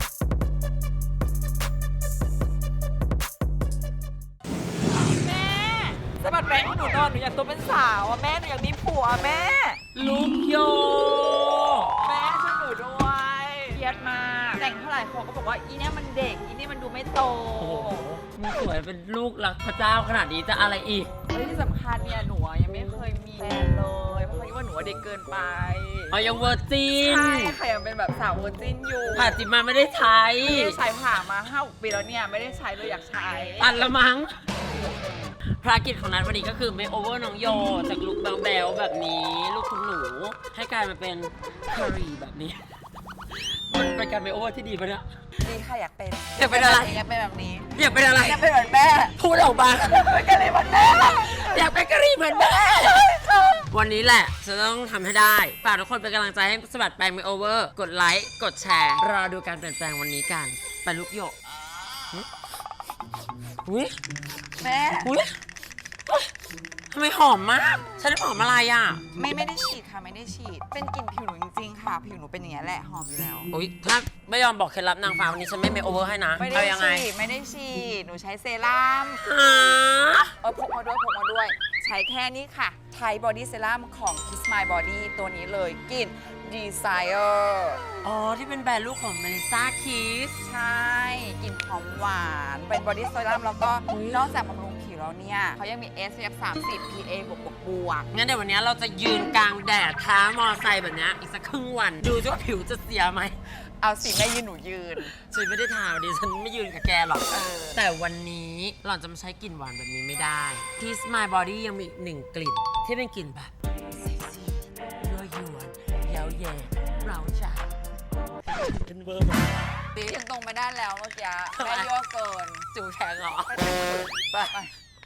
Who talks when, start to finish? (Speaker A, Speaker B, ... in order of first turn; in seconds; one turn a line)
Speaker A: 4.9-9.8
Speaker B: 9.9-11.9
Speaker A: 12.0-18.0
Speaker B: 17.6-21.1
Speaker A: 21.3-26.2
Speaker B: 26.1-27.6
Speaker A: 27.0-29.4
Speaker B: 29.1-30.8
Speaker A: 30.4-33.9
Speaker B: 33.6-34.4
Speaker B: 35.6-42.6
Speaker B: 43.3-45.0
Speaker A: 45.4-49.1
Speaker B: 46.4-47.0
Speaker B: 47.7-48.5
Speaker B: 49.1-61.4
Speaker A: 49.8-51.6
Speaker A: 52.6-53.5
Speaker B: 63.6-64.0
Speaker A: 64.6-65.1
Speaker B: 65.0-65.3
Speaker B: 66.9-69.0
Speaker A: 69.1-73.5
Speaker B: 73.5-77.0
Speaker A: 76.3-79.3
Speaker B: 79.2-80.3
Speaker A: 80.4-87.8
Speaker B: 88.0-90.4
Speaker A: 90.4-98.1
Speaker B: 93.9-94.3
Speaker B: 98.1-103.3
Speaker A: 103.5-105.1
Speaker B: 105.2-117.7
Speaker A: 107.3-107.8
Speaker B: 118.5-119.5
Speaker A: 119.9-122.7
Speaker B: 121.5-121.9
Speaker B: 122.7-124.6
Speaker A: 123.5-124.7